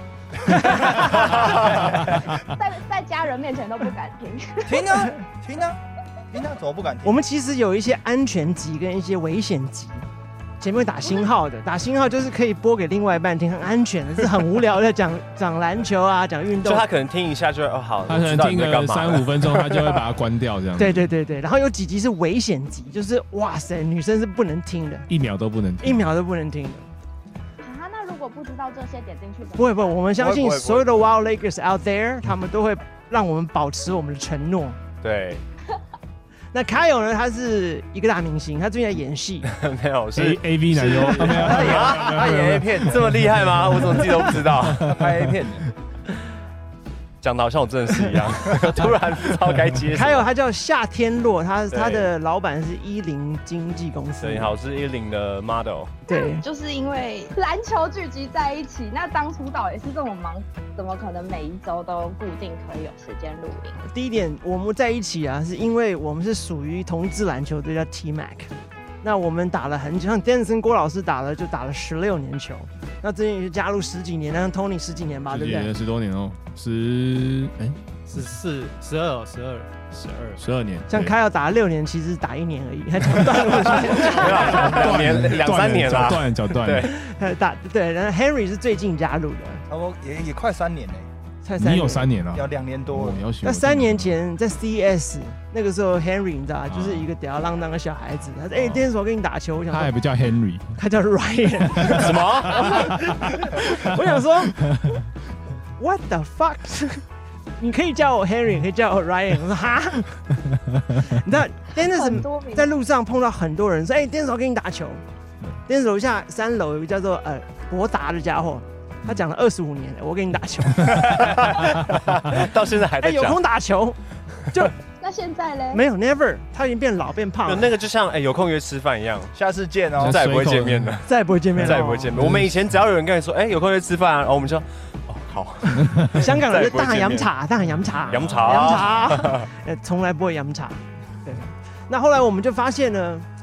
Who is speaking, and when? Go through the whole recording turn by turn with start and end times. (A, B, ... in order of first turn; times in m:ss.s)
0:00.4-0:01.9 A
0:01.3-0:02.1 B
0:02.2-0:05.1 C
0:04.7-0:05.8 B
0:06.3-0:07.2 B
0:07.0-0:10.0 A
0:10.6-0:16.9 A
0:11.0-0:11.3 C
0:16.6-0:20.0 D
0:18.1-0:21.0 E
0:20.8-0:25.1 A
0:25.1-0:26.0 E
0:25.8-0:26.9 A
0:27.6-0:30.2 C
0:29.6-0:34.8 A
0:30.2-0:31.0 B
0:35.0-0:35.4 D
0:36.5-0:39.5 A
0:39.5-0:44.9 D
0:40.1-0:45.3 E
0:40.8-0:42.9 B
0:44.9-0:45.6 B
0:47.2-0:50.3 D
0:49.9-0:54.5 A
0:51.7-0:52.1 D
0:54.2-0:55.9 D
0:56.1-0:56.4 A
0:56.1-1:03.8 C
1:03.8-1:08.5 A
1:09.0-1:15.7 A
1:15.3-1:17.8 E
1:18.1-1:20.4 F
1:20.4-1:21.1 E
1:20.9-1:24.8 A
1:23.7-1:27.0 D
1:24.2-1:26.9 E
1:26.8-1:29.6 A
1:29.7-1:31.1 B
1:31.4-1:32.1 A
1:31.6-1:34.2 E
1:32.3-1:33.3 B
1:33.4-1:39.9 A
1:36.7-1:37.1 E
1:38.5-1:38.8 E
1:39.7-1:40.8 E
1:40.8-1:44.8 A
1:41.9-1:42.7 D
1:44.6-1:45.0 E
1:45.8-1:47.0 A
1:47.6-1:50.2 A
1:50.9-1:55.0 A
1:51.9-1:52.7 C
1:55.7-2:01.2 A
2:00.8-2:03.4 D
2:03.0-2:04.8 A
2:05.0-2:05.8 C
2:05.7-2:07.7 A
2:07.4-2:09.3 D
2:09.3-2:10.3 B
2:10.0-2:10.9 E
2:10.0-2:11.1 D
2:11.0-2:12.2 A
2:11.6-2:17.3 D
2:11.7-2:12.6 E
2:15.8-2:16.1 E
2:16.0-2:23.2 A
2:18.1-2:19.4 D
2:18.1-2:18.4 E
2:18.4-2:18.9 B